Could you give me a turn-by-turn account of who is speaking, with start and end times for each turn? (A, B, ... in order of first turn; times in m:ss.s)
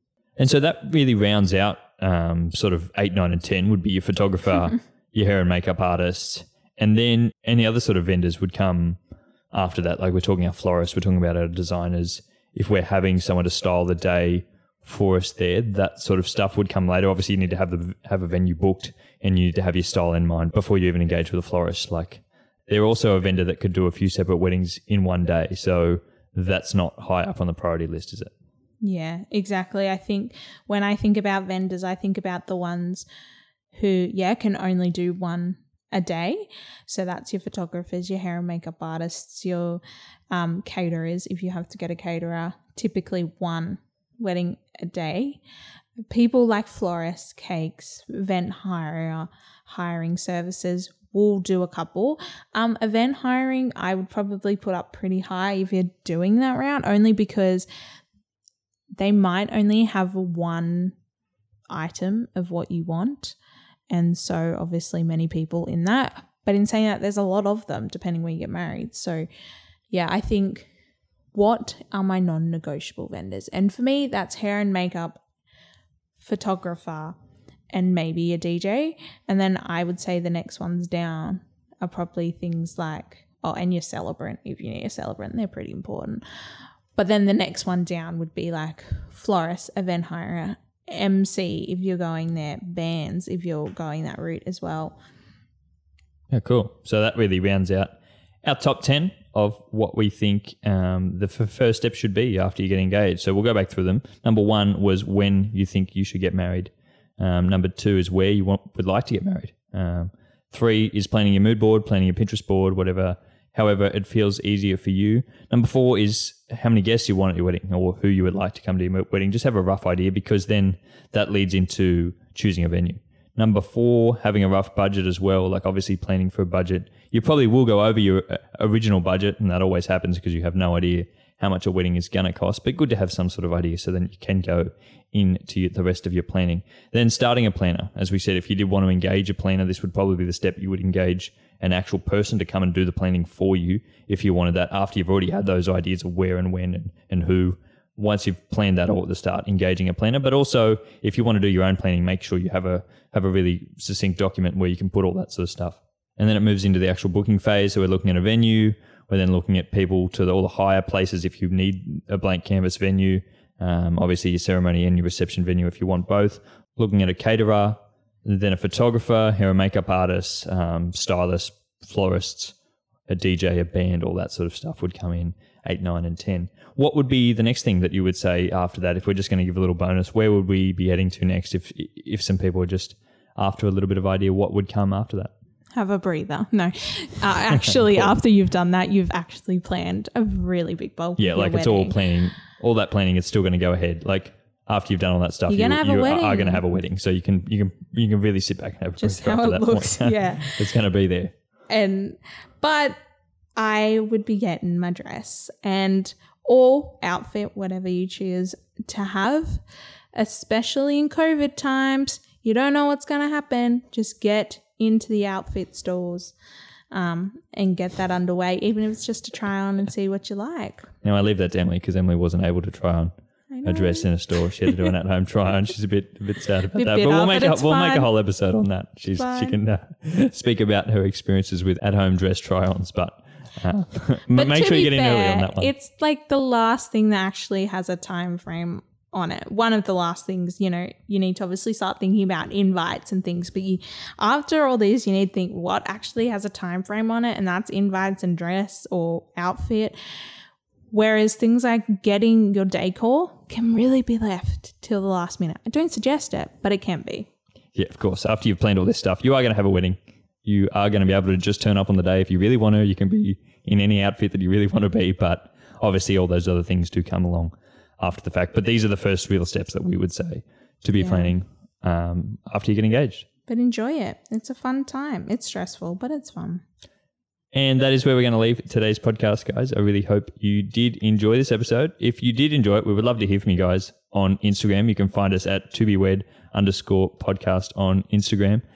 0:00.4-0:09.0 A
0:09.5-0:28.3 A
0:28.8-0:33.1 B
0:33.7-0:45.4 B
0:46.1-0:57.7 B
0:59.0-1:01.0 B
1:01.7-1:03.4 B
1:03.9-1:09.3 B
1:09.9-1:10.7 B
1:11.3-1:15.2 B
1:16.2-1:17.2 B
1:17.7-1:26.2 B
1:27.0-1:35.0 B
1:36.3-2:52.6 A
2:53.1-3:05.3 A
3:05.8-3:12.0 B
3:07.5-3:08.1 A
3:11.2-3:21.4 A
3:15.5-3:16.6 B
3:19.0-3:20.6 B
3:21.7-3:23.0 B
3:23.6-3:29.6 B
3:30.2-3:36.3 B
3:36.9-3:40.9 B
3:41.0-3:43.1 A
3:43.5-3:44.1 B
3:43.6-3:55.7 A
3:46.7-3:48.1 B
3:49.2-3:49.6 B
3:54.3-4:10.0 B
4:10.9-4:17.3 B
4:17.8-4:33.3 A
4:31.0-4:31.3 B
4:33.5-4:36.6 B
4:37.5-4:48.6 A